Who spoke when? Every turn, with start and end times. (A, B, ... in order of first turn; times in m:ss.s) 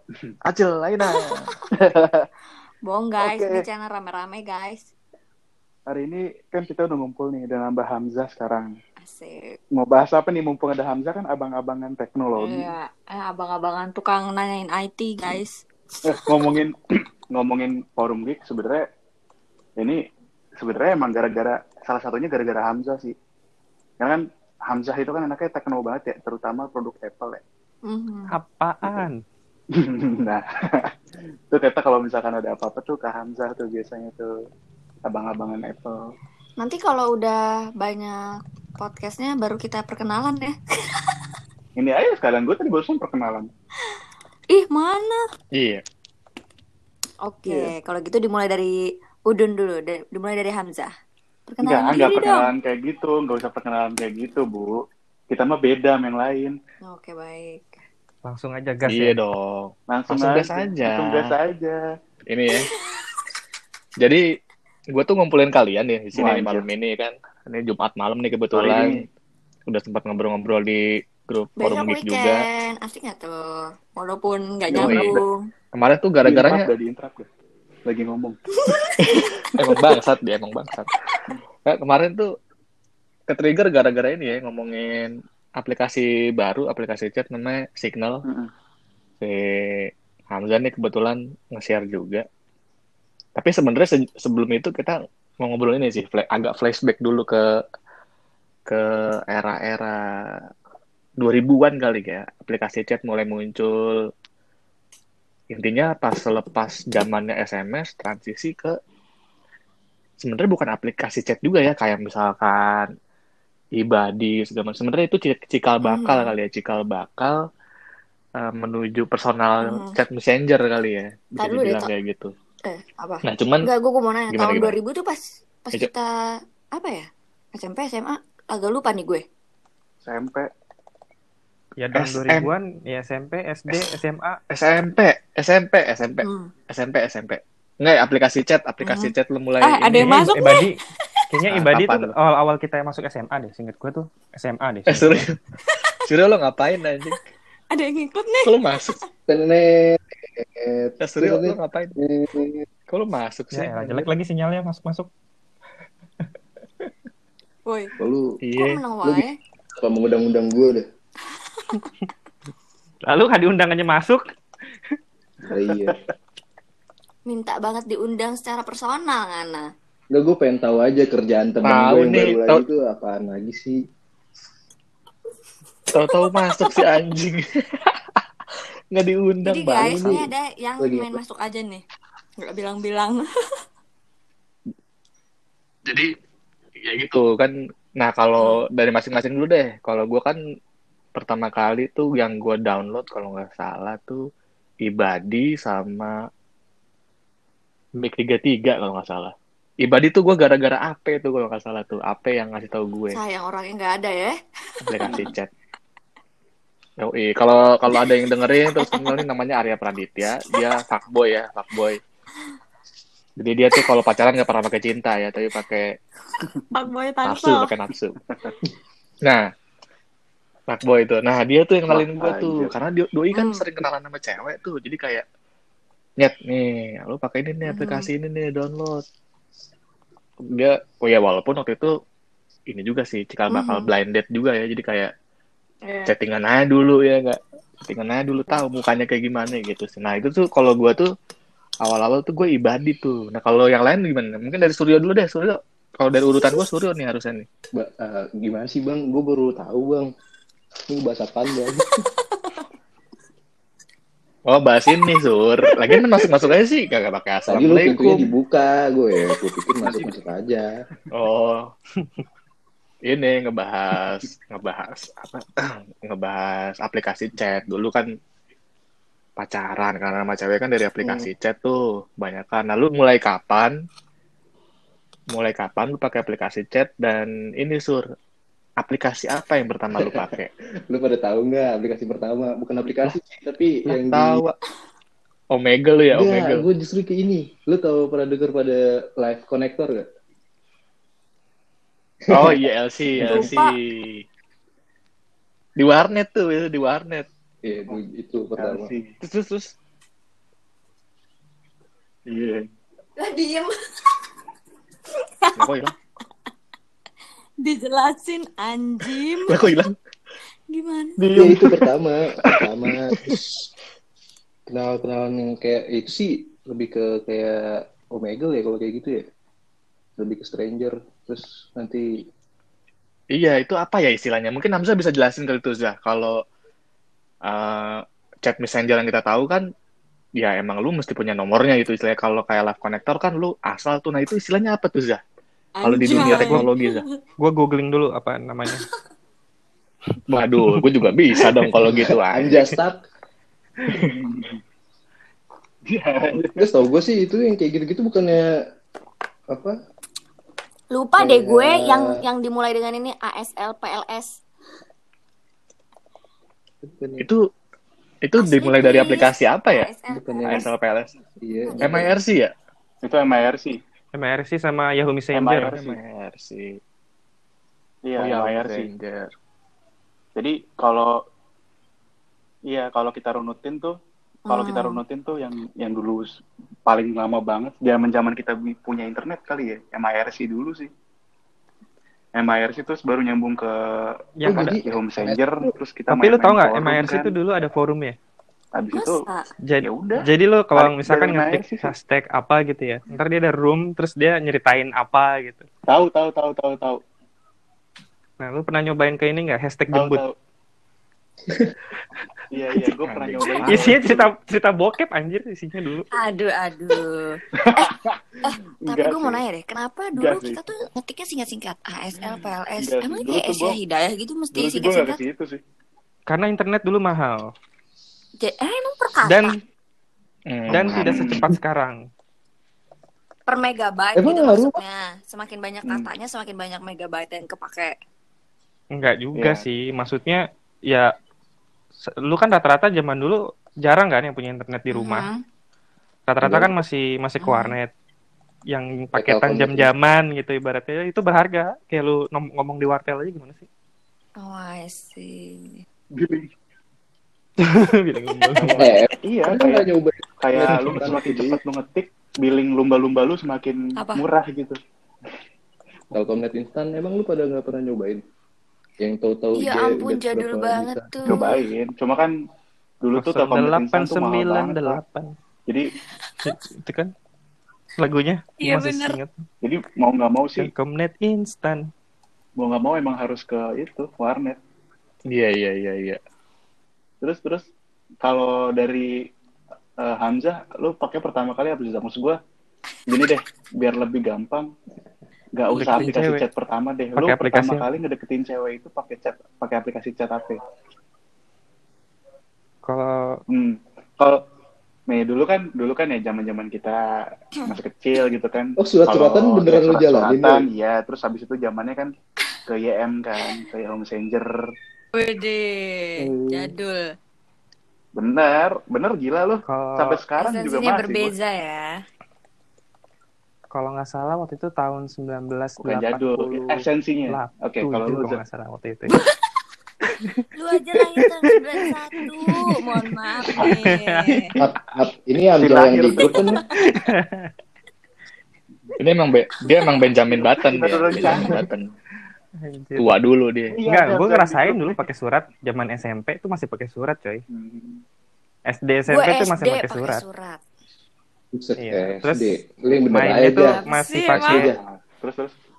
0:00.4-0:01.5 A
0:01.1-0:01.6 B
0:01.7-0:02.3 C
0:02.9-0:04.9 B
0:03.2-0:03.7 C
0:05.9-0:08.7 C
0:09.0-0:09.4 B
0:09.8-0:12.8 C
0:12.4-0:15.6 B
0:16.0-0:16.8 C
0:17.3-0:18.8 C
0:20.6-0:23.1 C
0:24.0-0:27.4 C
0:27.9-0:28.3 B
0:28.3-0:29.2 D
0:29.7-0:30.9 C
0:31.5-0:34.3 C
0:35.1-0:36.0 C
0:36.6-0:38.2 B
0:38.8-0:41.2 B
0:41.8-0:43.5 C
0:44.5-0:45.2 B
0:45.6-0:45.8 A
0:47.3-0:48.8 B
0:49.3-0:50.9 B
0:51.5-0:52.5 B
0:51.6-0:54.8 C
0:55.3-0:56.6 C
0:56.9-0:57.8 B
0:58.3-0:59.2 D
0:58.9-1:01.4 A
0:59.9-1:01.8 C
1:02.3-1:02.7 A
1:02.6-1:03.2 B
1:04.9-1:09.0 A
1:06.1-1:06.7 C
1:08.5-1:09.1 C
1:09.7-1:12.4 A
1:11.6-1:15.5 B
1:14.7-1:15.2 C
1:14.8-1:15.1 A
1:15.7-1:16.7 A
1:16.2-1:17.3 C
1:17.9-1:18.4 C
1:18.6-1:19.5 B
1:19.1-1:21.1 A
1:21.7-1:22.3 A
1:23.3-1:28.2 A
1:28.2-1:28.5 C
1:29.2-1:32.2 A
1:33.4-1:37.4 A
1:38.7-1:40.0 A
1:41.2-1:44.0 A
1:45.5-1:48.8 A
1:50.2-1:52.9 A
1:53.8-1:57.4 A
1:55.8-1:56.3 B
1:58.4-2:02.3 A
1:59.6-1:59.9 B
2:01.4-2:01.9 B
2:02.6-2:06.1 B
2:03.3-2:03.7 A
2:04.3-2:04.8 A
2:06.7-2:09.2 B
2:10.0-2:10.5 C
2:11.8-2:14.4 D
2:12.0-2:12.5 A
2:14.5-2:20.3 A
2:16.2-2:16.5 B
2:18.8-2:21.2 B
2:20.0-2:20.8 D
2:21.3-2:25.3 D
2:21.5-2:22.1 A
2:24.9-2:25.4 A
2:25.6-2:26.0 B
2:26.0-2:27.2 A
2:27.7-2:29.0 B
2:28.4-2:29.0 A
2:29.3-2:32.7 E
2:31.0-2:31.9 A
2:32.9-2:33.8 A
2:33.5-2:35.1 D
2:37.7-2:37.9 B
2:38.0-2:38.4 E
2:38.4-2:38.8 A
2:38.6-2:39.4 B
2:39.0-2:40.8 E
2:43.1-2:44.2 D
2:45.5-2:46.0 E
2:45.7-2:46.0 C
2:47.3-2:49.7 B
2:50.1-2:53.8 E
2:51.6-2:52.6 A
2:55.9-2:58.2 A
2:56.3-2:56.8 B
2:58.9-3:00.2 A
2:59.4-3:01.8 B
2:59.8-3:00.2 E
3:00.8-3:01.2 E
3:02.4-3:03.2 B
3:06.8-3:10.4 A
3:11.2-3:14.2 A
3:14.8-3:16.1 A
3:18.0-3:23.2 A
3:23.1-3:25.3 B
3:24.8-3:25.5 A
3:25.0-3:25.4 C
3:27.0-3:32.0 A
3:28.8-3:29.2 B
3:30.3-3:30.6 B
3:33.4-3:35.9 A
3:36.3-3:37.7 B
3:37.2-3:38.2 A
3:38.3-3:38.5 C
3:40.7-3:45.2 A
3:41.9-3:42.7 C
3:43.3-3:43.6 B
3:46.2-3:49.0 A
3:47.7-3:48.1 B
3:50.5-3:51.9 A
3:52.7-3:55.1 A
3:53.5-3:53.9 B
3:55.8-3:56.1 B
3:56.1-4:01.1 A
4:01.8-4:07.5 A
4:07.7-4:10.1 E
4:10.9-4:12.0 E
4:12.3-4:12.6 B
4:14.5-4:18.3 A
4:17.5-4:20.7 E
4:19.8-4:20.2 C
4:21.1-4:21.7 A
4:23.1-4:28.1 A
4:29.4-4:33.8 A
4:31.0-4:31.3 E
4:35.3-4:38.0 A
4:38.8-4:40.5 A
4:40.0-4:40.4 E
4:40.9-4:44.4 E
4:43.9-4:44.6 A
4:45.5-4:46.7 A
4:46.1-4:50.0 E
4:52.3-4:52.6 E
4:52.3-4:54.2 A
4:53.2-4:53.6 E
4:53.2-4:53.8 B
4:55.8-4:57.3 A
4:57.6-4:58.9 E
4:58.6-4:59.2 C
4:59.2-4:59.7 A
5:02.3-5:02.7 C
5:03.2-5:04.2 B
5:05.2-5:05.7 B
5:05.6-5:05.9 A
5:07.6-5:09.8 B
5:09.5-5:10.0 A
5:10.7-5:11.2 B
5:11.2-5:11.7 C
5:11.4-5:13.4 E
5:12.9-5:13.4 A
5:14.7-5:19.2 E
5:20.2-5:22.0 E
5:23.3-5:26.4 A
5:27.5-5:29.6 A
5:30.4-5:35.2 A
5:35.8-5:37.2 B
5:35.8-5:37.0 A
5:36.2-5:36.6 D
5:37.4-5:38.8 D
5:40.3-5:42.7 A
5:41.8-5:43.0 E
5:43.9-5:44.6 C
5:45.9-5:46.7 C
5:46.6-5:48.4 E
5:50.9-5:54.4 B
5:51.2-5:52.2 E
5:56.8-5:57.3 E
5:58.2-5:59.9 A
5:58.4-6:00.7 B
6:00.1-6:00.7 E
6:00.5-6:01.2 A
6:01.4-6:02.1 E
6:01.7-6:02.1 B
6:01.8-6:02.5 A
6:03.0-6:03.8 C
6:04.2-6:05.8 D
6:05.3-6:06.0 C
6:05.7-6:06.8 A
6:08.1-6:08.9 C
6:08.2-6:09.3 A
6:10.4-6:11.2 C
6:12.7-6:13.9 C
6:14.5-6:16.3 C
6:14.5-6:15.0 B
6:16.9-6:20.9 C
6:22.4-6:27.3 C
6:24.4-6:24.8 D
6:24.5-6:25.7 E
6:26.1-6:28.2 D
6:28.8-6:29.2 C
6:28.9-6:29.5 B
6:29.6-6:35.7 D
6:29.8-6:31.9 C
6:35.9-6:37.0 C
6:38.4-6:40.2 D
6:39.9-6:40.3 C
6:41.5-6:41.8 E
6:42.5-6:44.3 C
6:43.1-6:44.1 A
6:43.7-6:46.1 D
6:46.2-6:55.2 B
6:47.6-6:49.4 C
6:50.2-6:50.6 C
6:52.2-6:53.8 C
6:54.5-6:55.6 C
6:56.3-6:57.5 D
6:58.4-6:59.5 B
6:59.2-6:59.6 D
7:00.5-7:01.3 A
7:00.7-7:02.0 D
7:00.9-7:01.5 C
7:03.5-7:07.9 B
7:04.2-7:04.8 E
7:05.8-7:06.1 C
7:08.9-7:11.1 D
7:09.4-7:09.6 C
7:12.1-7:15.3 D
7:14.9-7:15.4 B
7:16.3-7:17.9 D
7:16.4-7:16.8 E
7:17.4-7:17.8 B
7:18.7-7:23.7 D
7:19.2-7:19.9 E
7:24.4-7:25.8 B
7:26.1-7:26.5 C
7:27.6-7:28.9 D
7:28.6-7:29.0 A
7:28.8-7:31.6 E
7:29.2-7:29.9 C
7:30.4-7:34.8 C
7:30.7-7:31.1 A
7:34.0-7:34.3 B
7:36.1-7:38.2 E
7:39.0-7:41.1 E
7:39.6-7:41.6 B
7:41.2-7:42.3 C
7:43.0-7:45.0 C
7:43.2-7:45.3 D
7:45.7-7:45.9 C
7:46.4-7:47.1 D
7:48.0-7:49.4 D
7:48.6-7:49.2 B
7:49.6-7:50.7 C
7:50.6-7:51.9 D
7:52.6-7:54.6 C
7:55.3-7:56.2 A
7:57.2-7:57.7 C
7:58.2-7:59.1 C
8:00.0-8:02.4 C
8:03.1-8:04.7 C
8:05.6-8:10.6 C
8:05.7-8:06.4 D
8:07.2-8:07.9 D
8:12.8-8:13.4 D
8:13.5-8:14.4 C
8:15.1-8:17.0 C
8:17.6-8:22.1 C
8:18.8-8:20.6 E
8:22.7-8:24.6 C
8:25.1-8:27.1 B
8:26.2-8:26.7 E
8:28.2-8:31.3 C
8:29.7-8:30.2 D
8:30.4-8:32.0 B
8:33.7-8:39.2 D
8:35.8-8:38.4 C
8:40.5-8:44.5 B
8:43.6-8:44.5 D
8:44.6-8:46.6 E
8:45.6-8:46.6 C
8:46.2-8:46.5 B
8:46.7-8:47.5 D
8:49.0-8:51.9 A
8:50.3-8:51.6 C
8:51.3-8:51.5 B
8:52.6-8:53.1 D
8:53.0-8:53.8 A
8:53.7-8:55.0 C
8:53.9-8:57.4 D
8:57.5-8:58.0 C
8:58.7-9:00.2 D
8:59.1-9:00.6 B
9:01.5-9:03.8 E
9:01.8-9:02.5 D
9:03.1-9:04.7 D
9:03.8-9:04.7 B
9:04.4-9:04.8 E
9:04.5-9:05.6 C